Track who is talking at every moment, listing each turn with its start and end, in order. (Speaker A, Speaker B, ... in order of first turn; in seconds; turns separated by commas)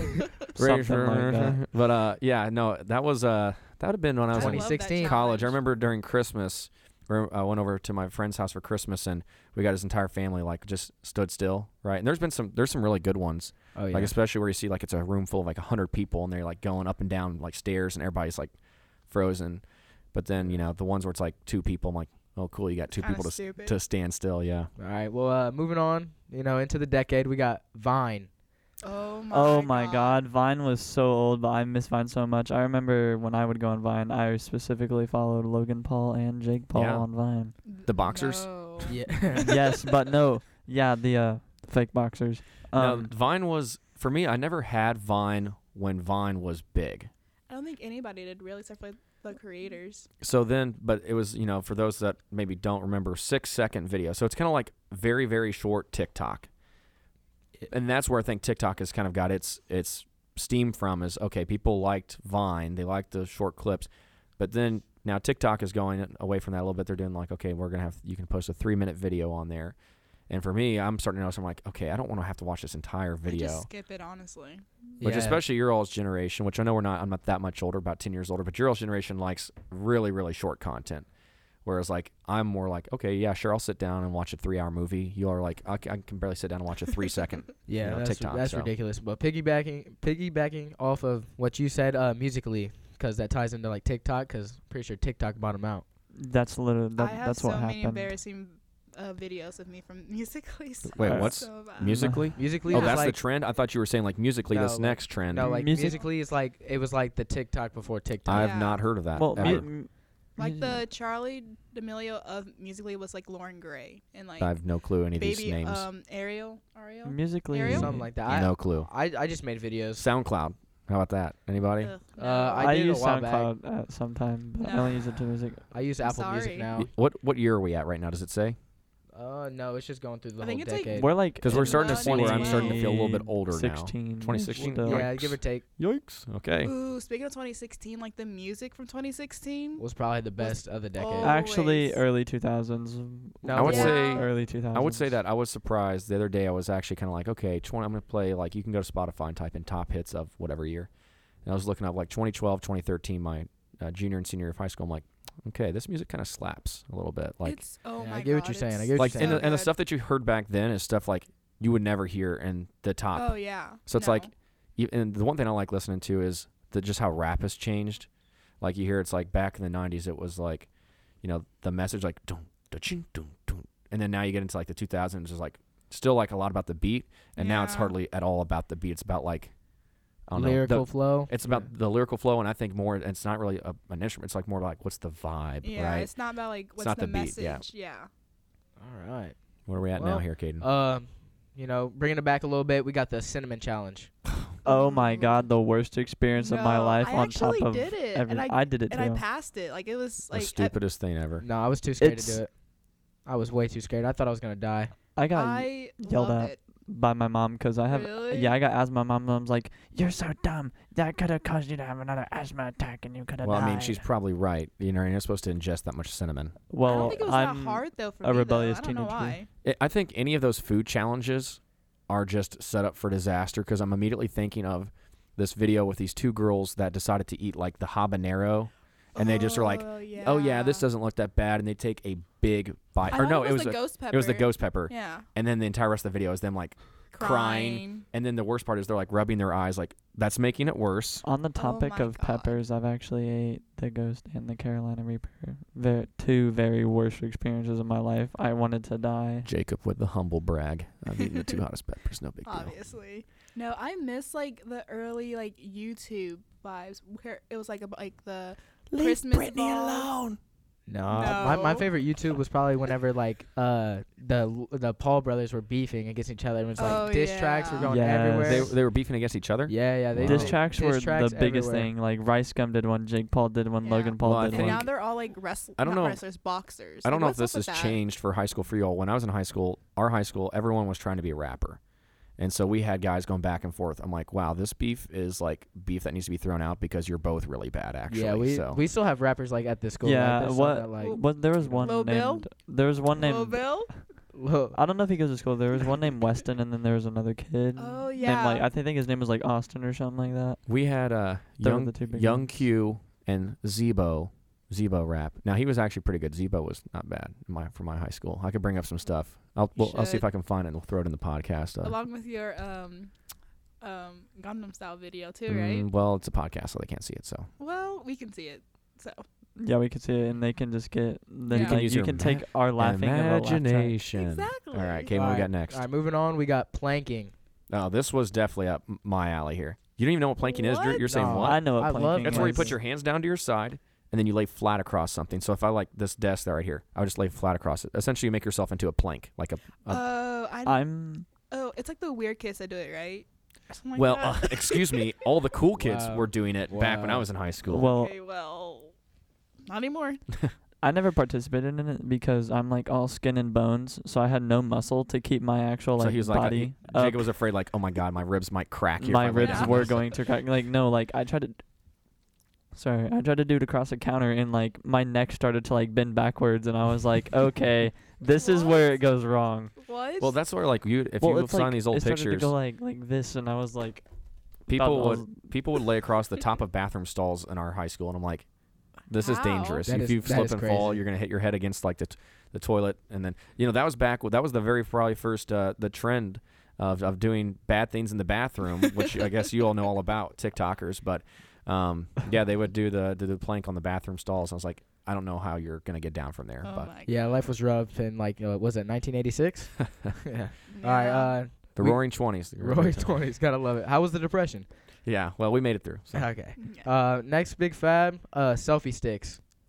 Speaker A: 0.6-1.6, Speaker B: 0.6-18.5, Speaker C: 4.3-5.6, Speaker D: 4.3-5.2, Speaker D: 13.8-14.2, Speaker B: 19.1-24.7, Speaker C: 22.9-23.8, Speaker D: 24.8-28.3, Speaker C: 28.8-30.2, Speaker A: 29.3-37.5, Speaker B: 36.7-37.1, Speaker C: 37.7-39.6, Speaker B: 37.9-38.5, Speaker D: 38.9-39.6, Speaker A: 39.4-43.1, Speaker B: 42.7-47.1, Speaker C: 47.5-50.1, Speaker B: 50.2-56.5, Speaker B: 57.7-69.8, Speaker B: 70.3-73.7, Speaker C: 73.3-74.7, Speaker D: 75.0-75.4, Speaker B: 75.0-81.1, Speaker B: 81.7-88.7, Speaker D: 87.7-95.8, Speaker A: 96.2-98.1, Speaker C: 97.0-102.0, Speaker B: 100.9-105.6, Speaker A: 101.0-102.3, Speaker D: 102.4-103.2, Speaker C: 102.6-103.1, Speaker D: 104.5-108.6, Speaker A: 105.4-106.0, Speaker B: 108.3-109.7, Speaker C: 108.3-108.8, Speaker A: 109.1-110.8, Speaker C: 110.4-114.6, Speaker B: 114.4-115.9, Speaker C: 115.2-118.0, Speaker A: 117.0-118.1, Speaker D: 117.7-120.1, Speaker B: 118.3-118.9, Speaker B: 120.0-121.9, Speaker C: 121.8-122.8, Speaker D: 122.2-123.5, Speaker A: 122.6-125.6, Speaker C: 124.6-125.1, Speaker D: 125.7-126.9, Speaker C: 126.0-126.7, Speaker B: 126.8-128.6, Speaker D: 129.1-131.1, Speaker C: 130.4-132.8, Speaker A: 130.9-135.1, Speaker B: 131.4-136.7, Speaker D: 134.8-135.7, Speaker C: 136.6-139.9, Speaker D: 139.8-141.4, Speaker C: 140.4-142.0, Speaker A: 141.2-145.2, Speaker D: 143.4-144.2, Speaker B: 143.5-150.9, Speaker C: 143.6-144.3, Speaker B: 151.4-157.6, Speaker C: 157.4-159.7, Speaker D: 158.0-159.5, Speaker B: 159.0-163.3, Speaker C: 163.2-164.3, Speaker B: 163.8-168.1, Speaker B: 168.6-170.7, Speaker B: 171.2-179.5, Speaker C: 177.4-177.9, Speaker B: 180.3-186.1, Speaker D: 180.3-181.7, Speaker C: 185.6-188.1, Speaker B: 186.8-187.6, Speaker D: 188.8-189.4, Speaker B: 189.7-190.7, Speaker D: 189.9-194.1, Speaker C: 194.7-195.5, Speaker A: 194.7-199.2, Speaker C: 196.4-200.7, Speaker B: 200.3-201.5, Speaker D: 201.4-202.5, Speaker A: 202.0-202.4, Speaker D: 203.3-204.9, Speaker A: 205.2-214.0, Speaker C: 205.3-206.6, Speaker C: 207.9-208.5, Speaker B: 213.4-217.2, Speaker A: 216.7-219.4, Speaker C: 216.8-219.5, Speaker B: 219.6-241.2, Speaker C: 229.2-230.9, Speaker C: 233.1-235.3, Speaker C: 237.1-238.1, Speaker A: 241.2-249.5, Speaker C: 241.6-242.6, Speaker B: 249.4-252.8, Speaker C: 252.4-260.1, Speaker B: 258.9-260.4, Speaker D: 260.9-268.7, Speaker C: 261.1-261.9, Speaker C: 266.8-267.9, Speaker A: 267.8-268.8, Speaker B: 268.4-270.6, Speaker D: 269.7-271.9, Speaker A: 270.2-274.9, Speaker C: 273.8-278.0, Speaker B: 274.2-274.9, Speaker B: 275.8-276.2, Speaker B: 277.0-281.8, Speaker B: 282.4-288.8, Speaker D: 288.1-291.8, Speaker A: 290.0-294.0, Speaker C: 291.0-291.3, Speaker C: 291.8-292.5, Speaker C: 293.1-293.9, Speaker D: 294.3-294.8, Speaker A: 294.7-300.6, Speaker C: 297.8-298.7, Speaker B: 300.7-312.0, Speaker A: 301.6-302.6, Speaker C: 309.8-310.3, Speaker C: 311.8-313.1, Speaker C: 313.8-315.9, Speaker B: 315.5-317.5, Speaker C: 317.6-319.2, Speaker A: 319.6-324.0, Speaker C: 321.5-321.8, Speaker B: 321.5-325.9, Speaker C: 324.1-325.1, Speaker D: 325.1-327.3, Speaker B: 327.7-340.0, Speaker C: 330.4-331.2, Speaker D: 331.1-332.8, Speaker A: 331.3-332.8, Speaker C: 339.9-340.9, Speaker A: 340.6-341.3, Speaker C: 341.5-345.2, Speaker B: 343.9-347.9, Speaker D: 345.8-347.3, Speaker A: 347.7-348.1, Speaker C: 347.8-348.9, Speaker C: 349.7-350.2, Speaker A: 350.8-357.3, Speaker B: 356.0-360.1, Speaker A: 359.0-361.6, Speaker C: 359.4-359.8, Speaker A: 362.7-369.7, Speaker C: 368.4-368.9, Speaker C: 369.8-370.4, Speaker B: 370.2-372.5, Speaker A: 371.2-374.1, Speaker B: 374.7-378.5, Speaker A: 374.7-375.4, Speaker B: 379.1-396.9, Speaker C: 379.2-379.9, Speaker D: 379.9-381.0, Speaker C: 396.6-397.2, Speaker D: 397.1-404.7, Speaker C: 400.7-401.4, Speaker B: 401.8-403.1, Speaker B: 405.1-406.3, Speaker D: 406.1-409.4, Speaker C: 406.6-406.9